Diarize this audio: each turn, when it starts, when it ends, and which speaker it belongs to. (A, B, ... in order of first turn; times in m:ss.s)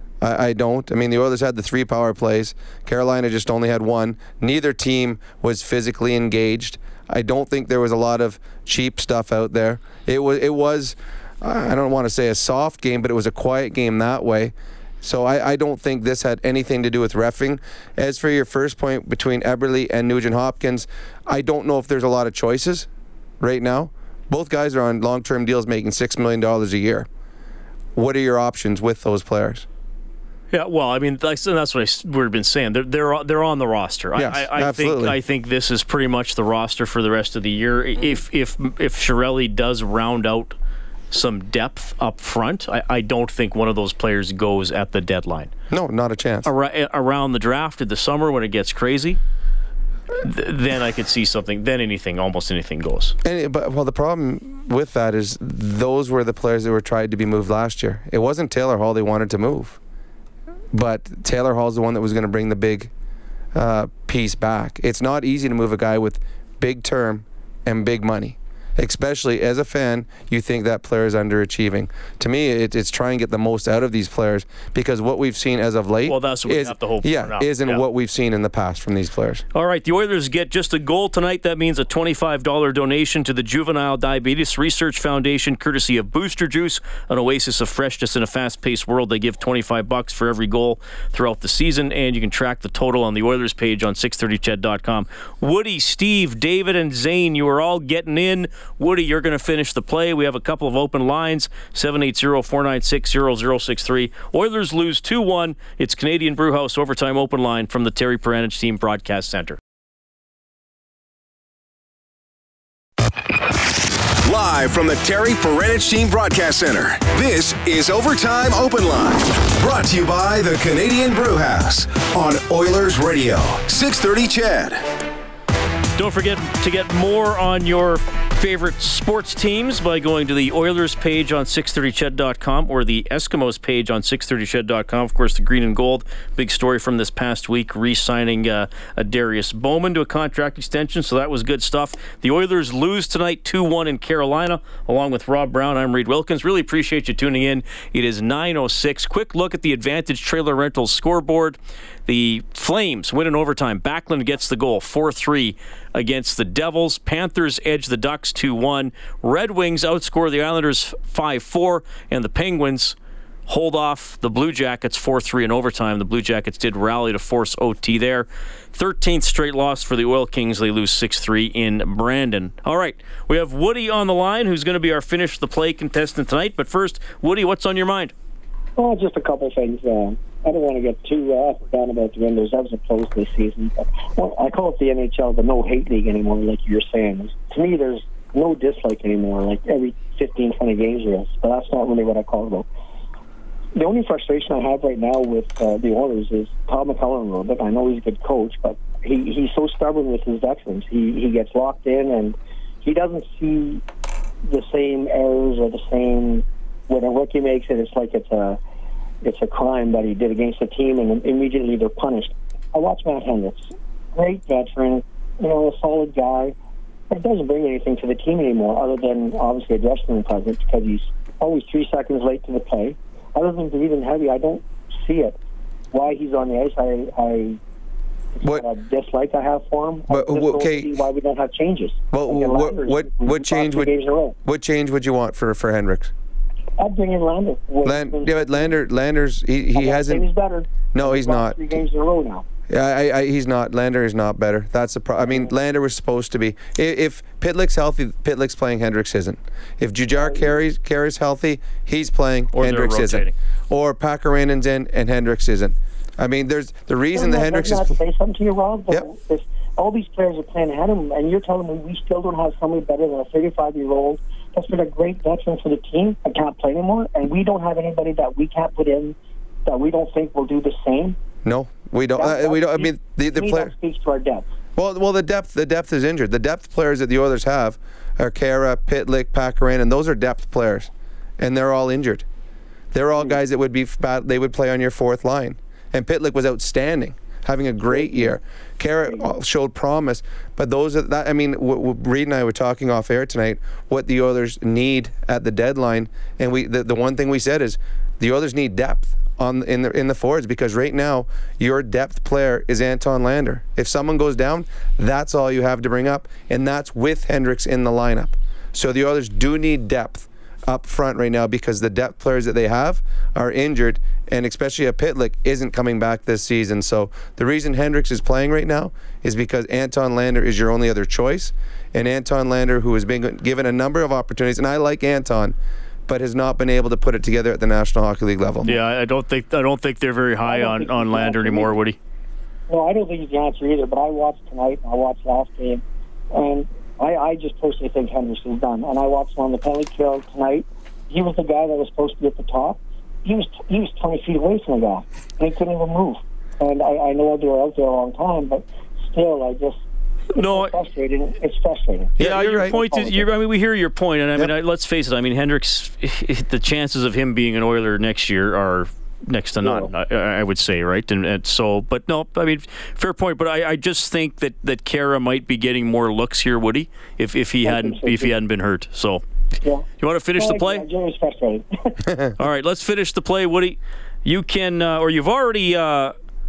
0:00.2-0:22.9 A
0:23.4-0:27.1 A
0:28.0-0:29.7 A
0:30.5-0:40.6 B
0:34.2-0:35.2 A
0:41.1-0:45.5 B
0:45.7-0:46.5 A
0:46.4-0:49.2 B
0:50.2-0:53.2 B
0:53.2-0:59.8 A
1:00.7-1:02.9 A
1:03.5-1:19.4 A
1:16.1-1:17.8 B
1:19.5-1:49.6 B
1:54.2-2:04.8 C
2:06.0-2:43.0 B
2:43.5-2:58.1 B
2:58.8-3:12.7 D
3:13.8-3:23.8 D
3:24.4-3:28.6 D
3:29.2-3:36.6 D
3:37.1-3:45.4 D
3:45.9-3:47.6 D
3:48.4-3:54.4 D
3:50.1-3:50.9 A
3:52.1-3:53.9 A
3:54.4-3:56.1 A
3:56.8-3:58.8 D
3:57.8-4:00.3 A
3:59.8-4:02.4 D
4:00.9-4:01.6 A
4:02.7-4:18.0 A
4:05.2-4:05.5 D
4:10.2-4:10.6 D
4:12.5-4:13.3 B
4:17.1-4:31.2 D
4:31.4-4:33.7 A
4:32.2-4:34.5 D
4:34.8-4:42.2 A
4:42.9-5:25.6 A
4:47.9-4:48.4 D
4:49.1-4:49.3 D
5:26.1-5:28.7 A
5:28.6-5:32.0 B
5:30.4-5:31.8 D
5:32.7-5:49.8 D
5:50.3-5:53.3 D
5:50.4-5:50.7 B
5:52.2-5:52.8 A
5:52.2-6:09.2 B
6:07.6-6:08.3 D
6:09.6-6:12.0 D
6:10.0-6:10.9 B
6:12.1-6:12.3 A
6:12.4-6:16.2 B